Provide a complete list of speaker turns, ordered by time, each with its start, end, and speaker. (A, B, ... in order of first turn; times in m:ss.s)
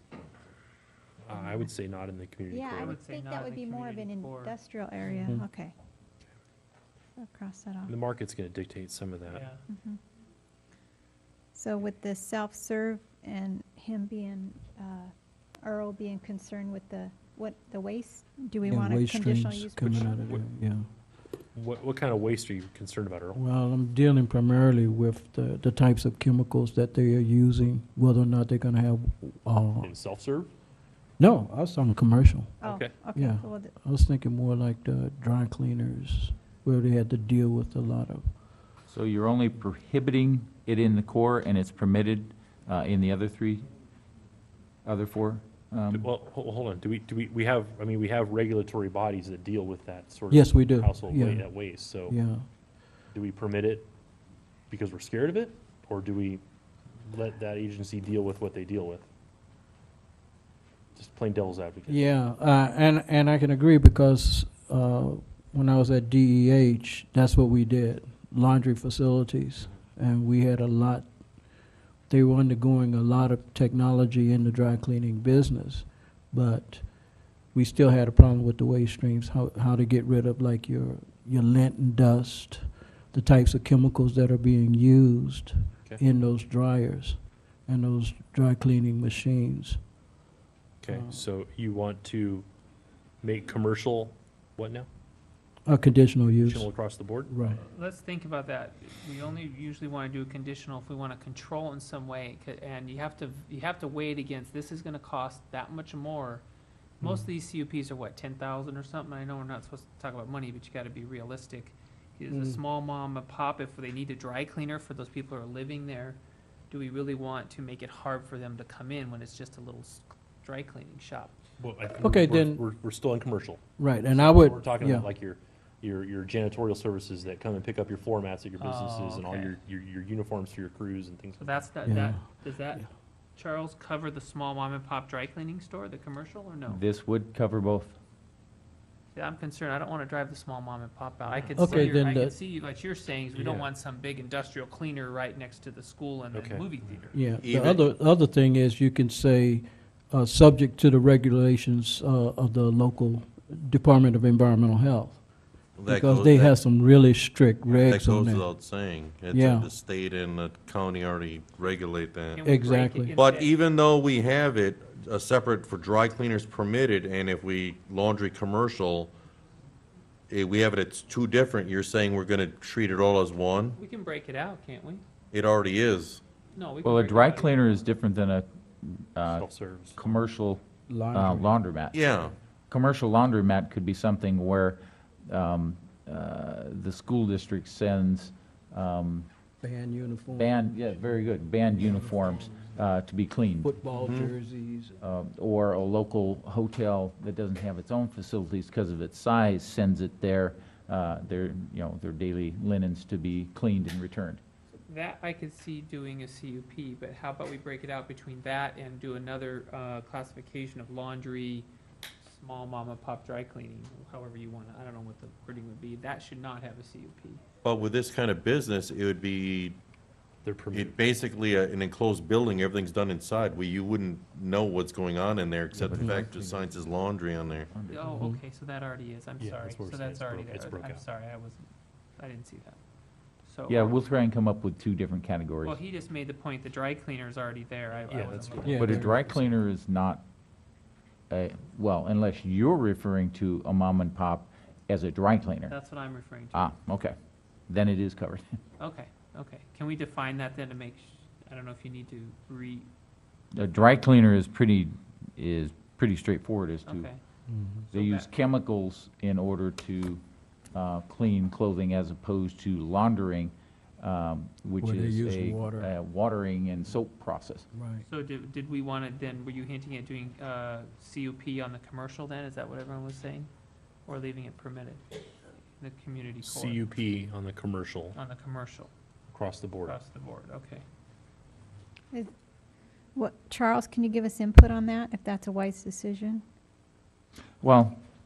0:01.2-0:03.0 A
0:02.5-0:05.7 B
0:02.8-0:04.6 C
0:05.1-0:05.5 D
0:07.2-0:07.9 B
0:07.8-0:09.4 A
0:09.3-0:09.6 C
0:09.7-0:10.0 B
0:11.5-0:20.4 B
0:18.6-0:20.9 D
0:21.5-0:23.4 A
0:23.3-0:29.9 D
0:29.8-0:30.5 A
0:31.2-0:32.6 D
0:32.6-0:33.8 B
0:32.6-0:33.0 A
0:33.1-0:38.4 D
0:38.9-0:43.7 E
0:44.8-0:46.1 E
0:45.9-0:52.2 A
0:50.3-0:52.5 D
0:53.1-0:53.9 A
0:54.7-0:56.4 A
0:57.0-0:59.0 A
1:01.0-1:02.1 A
1:01.9-1:29.9 D
1:30.8-1:32.4 A
1:30.9-1:31.2 D
1:33.2-1:34.9 A
1:35.6-1:36.7 D
1:36.2-1:37.6 A
1:37.3-1:37.6 D
1:37.7-1:46.4 C
1:47.0-1:56.2 C
1:52.3-1:52.6 D
1:56.7-2:01.3 C
2:01.6-2:11.7 A
2:02.0-2:02.6 D
2:03.8-2:05.1 D
2:08.6-2:09.6 C
2:11.4-2:16.8 C
2:11.8-2:12.9 D
2:16.7-2:17.9 E
2:19.1-2:27.3 C
2:21.5-2:22.4 D
2:23.3-2:23.7 A
2:26.3-2:26.8 A
2:27.1-2:38.5 D
2:27.4-2:27.8 F
2:35.8-2:36.6 F
2:37.7-2:42.4 F
2:39.3-2:39.7 D
2:42.3-2:43.5 C
2:42.4-2:43.2 D
2:43.1-2:49.1 F
2:50.3-2:53.8 F
2:53.8-2:55.0 C
2:55.3-2:56.2 F
2:56.5-2:57.8 C
2:56.8-3:02.0 E
2:59.3-3:00.0 A
3:00.9-3:01.6 D
3:01.9-3:02.3 F
3:02.7-3:09.3 E
3:09.6-3:10.7 D
3:10.3-3:13.8 E
3:11.8-3:12.6 D
3:13.6-3:15.0 D
3:14.0-3:14.3 F
3:15.0-3:24.4 E
3:24.9-3:31.7 C
3:32.2-3:37.4 C
3:37.6-3:39.8 F
3:40.4-3:41.0 A
3:40.7-3:47.7 F
3:45.7-3:46.5 A
3:45.9-3:46.4 D
3:47.7-3:48.0 E
3:47.9-3:52.8 C
3:48.1-3:48.4 D
3:49.4-3:51.0 A
3:53.4-3:54.0 C
3:53.7-3:55.8 E
3:55.6-3:59.3 C
3:58.1-3:58.9 A
3:58.6-3:59.2 D
3:58.8-4:00.2 E
4:01.3-4:05.8 E
4:05.7-4:06.7 C
4:06.5-4:07.1 E
4:07.7-4:08.4 E
4:08.8-4:12.9 C
4:13.6-4:17.1 E
4:16.9-4:17.2 C
4:17.5-4:17.9 D
4:17.9-4:18.3 C
4:17.9-4:20.2 E
4:20.7-4:27.6 E
4:24.8-4:25.9 D
4:27.7-4:28.0 D
4:28.0-4:33.5 C
4:34.1-4:35.0 C
4:35.8-4:36.8 C
4:36.4-4:38.2 A
4:38.1-4:38.9 C
4:39.3-4:40.0 A
4:39.8-4:40.8 C
4:43.1-4:46.4 B
4:47.6-4:48.0 E